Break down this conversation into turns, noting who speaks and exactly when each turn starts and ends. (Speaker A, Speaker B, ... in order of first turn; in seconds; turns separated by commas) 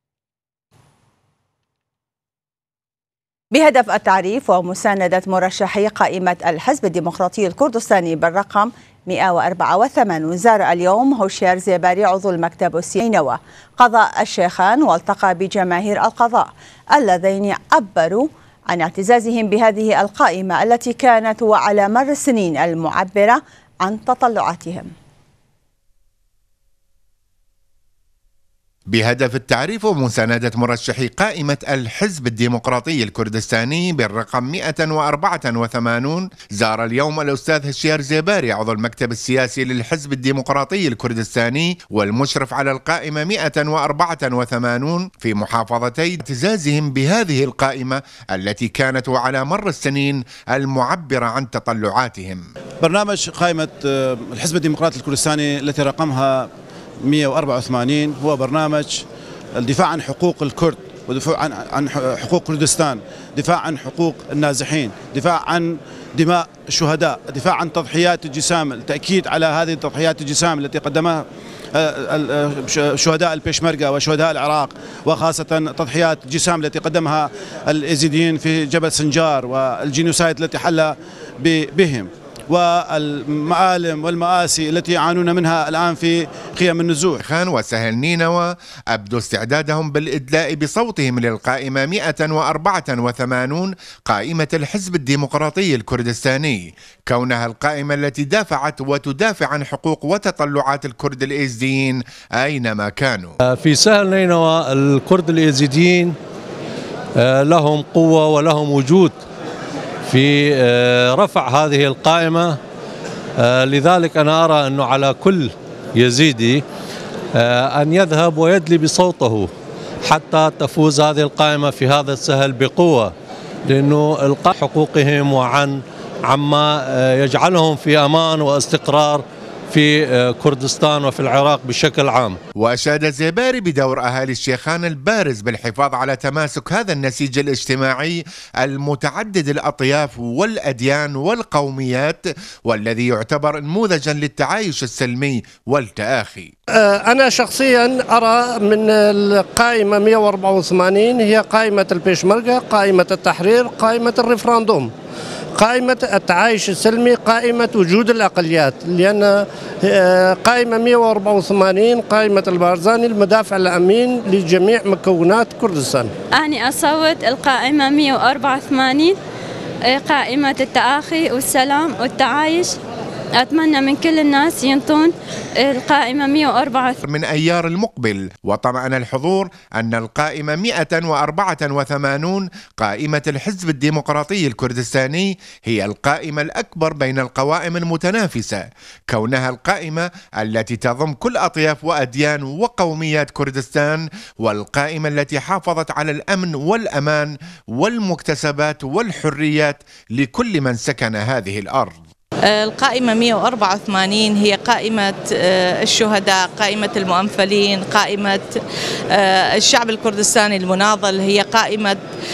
Speaker A: 3.5-24.9, Speaker B: 28.9-52.4, Speaker C: 52.8-56.5, Speaker C: 57.0-59.0, Speaker C: 59.6-87.2, Speaker B: 87.2-103.3, Speaker D: 103.5-106.1, Speaker D: 107.2-109.2, Speaker D: 110.1-112.6, Speaker D: 113.4-116.6, Speaker D: 117.3-119.5, Speaker D: 120.0-123.1, Speaker D: 123.7-132.4, Speaker B: 132.6-146.5, Speaker E: 146.7-154.9, Speaker E: 155.6-166.1, Speaker F: 166.3-169.2, Speaker F: 169.9-172.7, Speaker F: 173.4-177.0, Speaker B: 177.0-202.0, Speaker G: 202.5-208.6, Speaker G: 209.1-212.0